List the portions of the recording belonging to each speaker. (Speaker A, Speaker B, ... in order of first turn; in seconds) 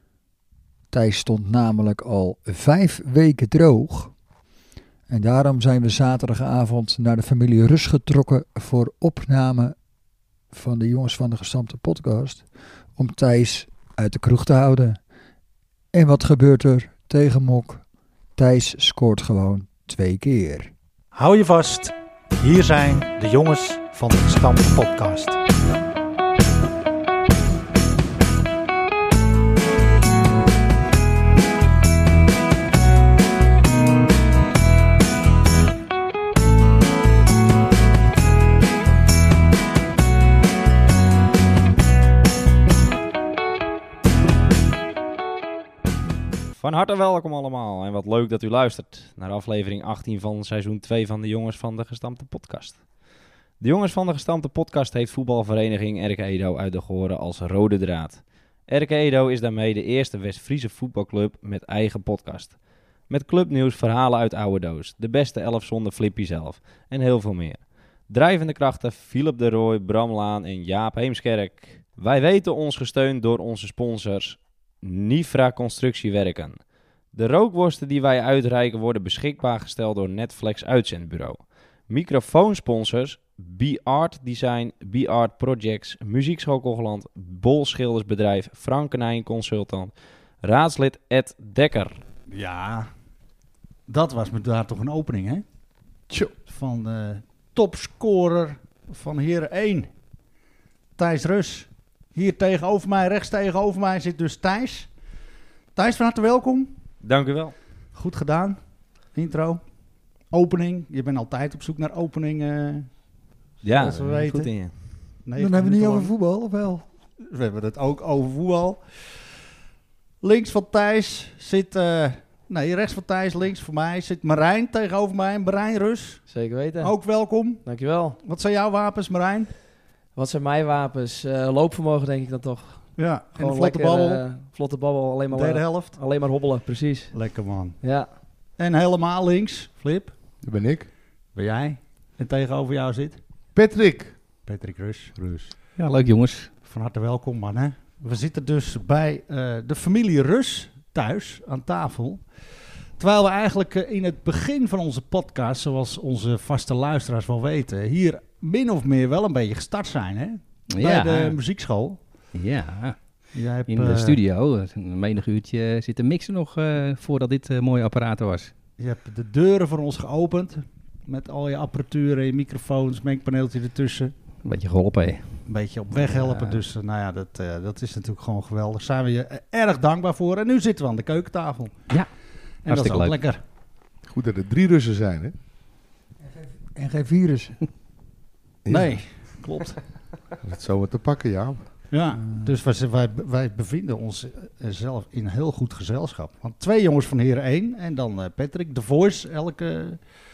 Speaker A: 0.9-4.1, 5.1-9.8, 10.5-12.4, 13.0-15.0, 15.9-17.8, 18.4-20.7, 115.4-116.8, 186.2-187.6
Speaker B: 21.1-25.4, 92.3-92.9, 93.9-95.4, 96.5-99.9, 101.0-104.9, 105.8-106.7, 107.9-108.6, 109.1-109.6, 110.3-112.9, 113.7-114.6, 115.2-116.1, 117.3-119.1, 120.2-126.2, 126.8-127.7, 128.2-129.5, 133.0-134.2, 135.3-136.0, 137.1-137.8, 138.6-140.1, 141.3-143.2, 144.4-145.5, 146.7-152.3, 153.0-162.0, 163.3-164.2, 168.8-174.2, 175.5-181.8, 182.7-183.4, 188.7-189.8, 191.9-200.0
Speaker C: 46.6-52.8, 53.6-76.6, 77.1-92.0, 107.0-107.5, 113.6-114.7
Speaker D: 126.3-127.0, 127.7-128.2, 130.1-137.1, 137.8-138.1
Speaker E: 140.4-140.9, 143.6-144.2, 145.2-145.4, 184.1-185.3, 188.7-189.0, 190.4-191.6
Speaker F: 145.8-146.5, 160.7-161.4, 162.3-163.0, 163.7-168.5, 174.4-175.4, 176.0-176.6, 182.7-183.2